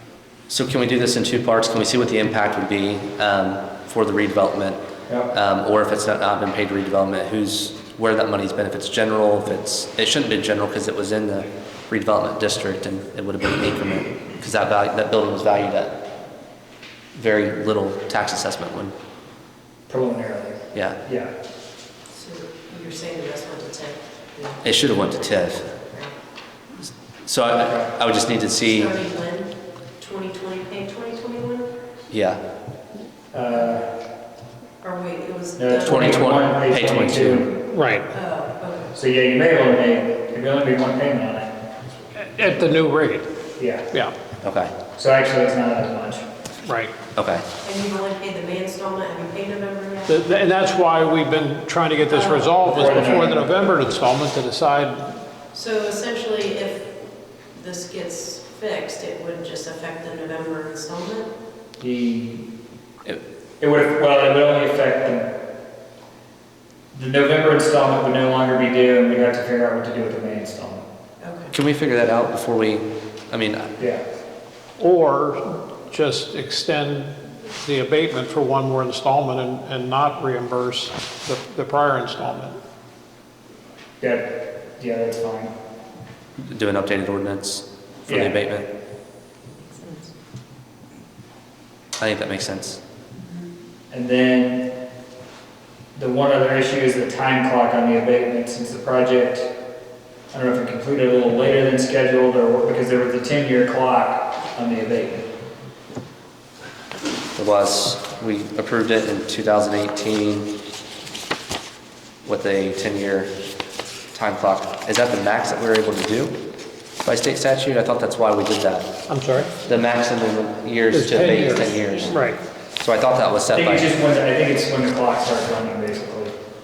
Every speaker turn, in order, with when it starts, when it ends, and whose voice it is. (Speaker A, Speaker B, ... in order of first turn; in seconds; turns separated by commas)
Speaker A: 0.5-16.0, Speaker A: 17.1-18.9, Speaker B: 19.9-21.3, Speaker A: 20.7-21.0, Speaker C: 22.1-26.2, Speaker A: 24.6-25.6, Speaker A: 26.8-28.9, Speaker B: 27.6-27.9, Speaker C: 28.6-31.7, Speaker A: 32.1-32.4, Speaker B: 33.3-33.9, Speaker C: 34.8-36.5, Speaker B: 35.6-37.5, Speaker A: 35.8-37.5, Speaker D: 37.7-38.1, Speaker C: 38.1-38.9, Speaker B: 38.9-41.5, Speaker D: 42.2-43.3, Speaker B: 43.6-43.9, Speaker A: 44.4-44.7, Speaker B: 44.9-46.2, Speaker D: 46.6-46.9, Speaker A: 47.1-47.5, Speaker C: 47.6-50.2, Speaker D: 50.1-55.2, Speaker C: 52.0-53.1, Speaker B: 52.6-53.7, Speaker C: 55.5-57.0, Speaker C: 57.5-61.3, Speaker B: 61.8-62.5, Speaker B: 63.6-65.3, Speaker B: 66.9-70.8, Speaker C: 71.2-71.5, Speaker A: 71.5-73.8, Speaker D: 74.8-82.6, Speaker B: 84.0-85.5, Speaker A: 86.4-88.7, Speaker B: 88.1-88.4, Speaker C: 89.7-90.1, Speaker A: 92.0-92.8, Speaker C: 93.2-93.5, Speaker B: 93.9-94.7, Speaker B: 95.9-99.5, Speaker B: 100.3-105.2, Speaker A: 107.4-110.5, Speaker A: 112.2-113.3, Speaker A: 114.1-116.4, Speaker A: 117.0-119.0, Speaker D: 119.1-119.5, Speaker A: 119.7-122.1, Speaker D: 120.9-122.4, Speaker C: 121.6-121.9, Speaker A: 122.8-123.9, Speaker B: 123.5-126.3